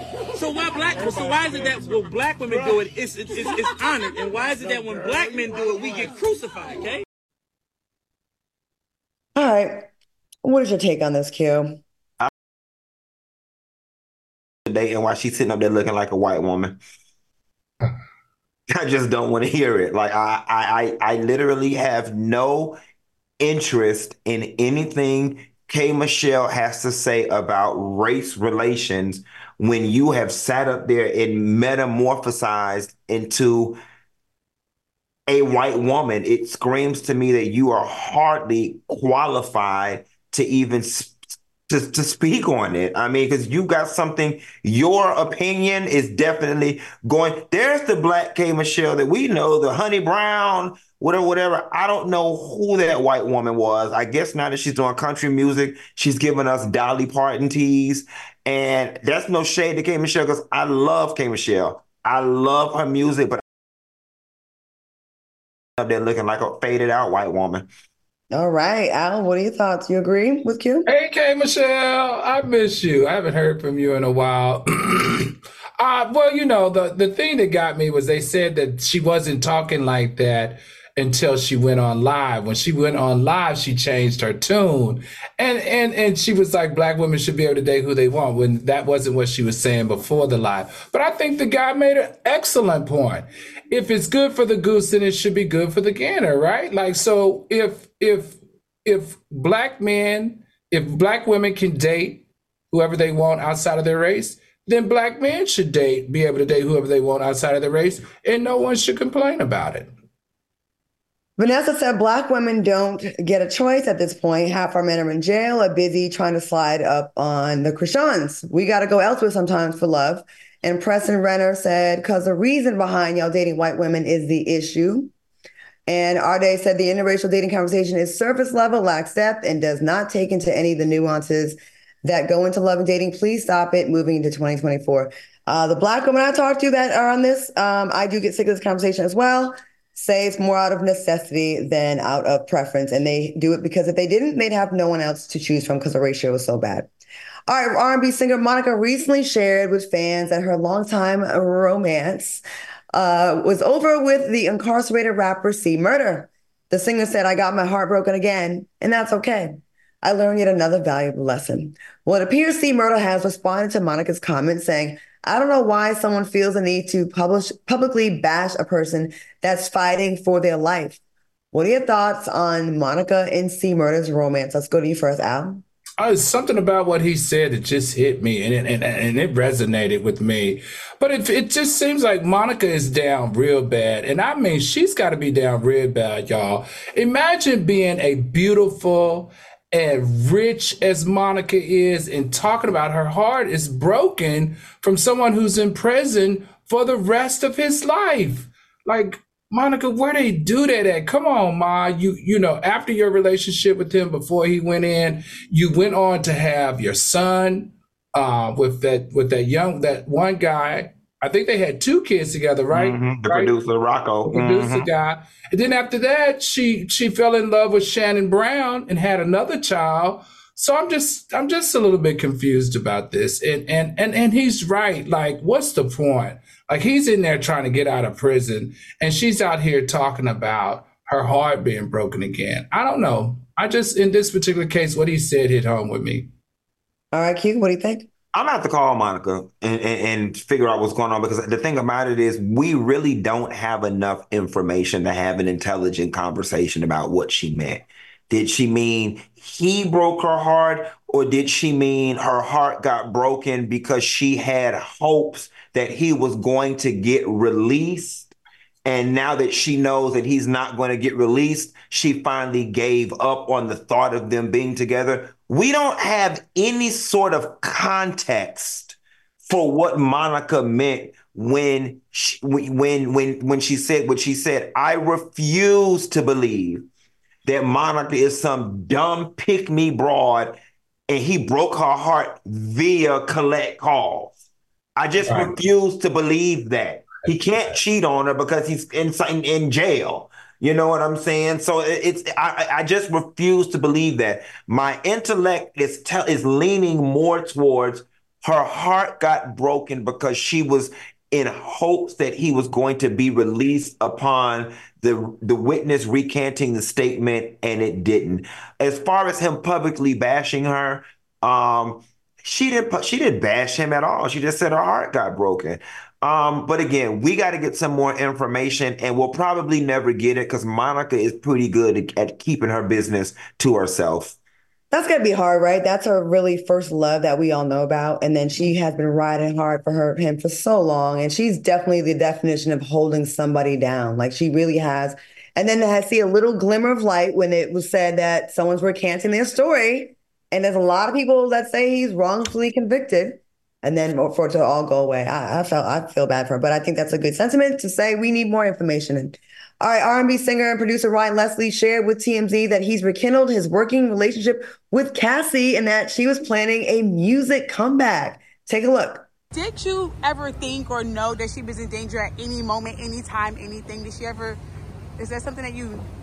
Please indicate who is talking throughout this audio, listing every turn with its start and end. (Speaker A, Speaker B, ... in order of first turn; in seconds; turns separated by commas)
Speaker A: 0.3-7.0, Speaker B: 9.4-9.9, Speaker B: 10.4-11.8, Speaker C: 14.7-16.8, Speaker C: 18.7-22.8, Speaker C: 23.4-33.8, Speaker C: 35.3-63.4, Speaker C: 65.8-67.7, Speaker B: 68.3-70.9, Speaker D: 70.9-109.9, Speaker B: 111.4-125.1, Speaker B: 125.9-146.9, Speaker B: 147.5-152.4, Speaker B: 152.9-171.0, Speaker B: 171.5-175.6, Speaker D: 176.0-213.5, Speaker C: 212.7-214.9, Speaker D: 214.2-236.3, Speaker B: 237.1-238.1, Speaker C: 238.3-258.3, Speaker C: 258.9-276.9, Speaker C: 277.4-284.3, Speaker C: 285.0-324.4, Speaker D: 285.2-285.6, Speaker B: 324.9-359.2, Speaker E: 359.5-364.6, Speaker E: 365.2-366.0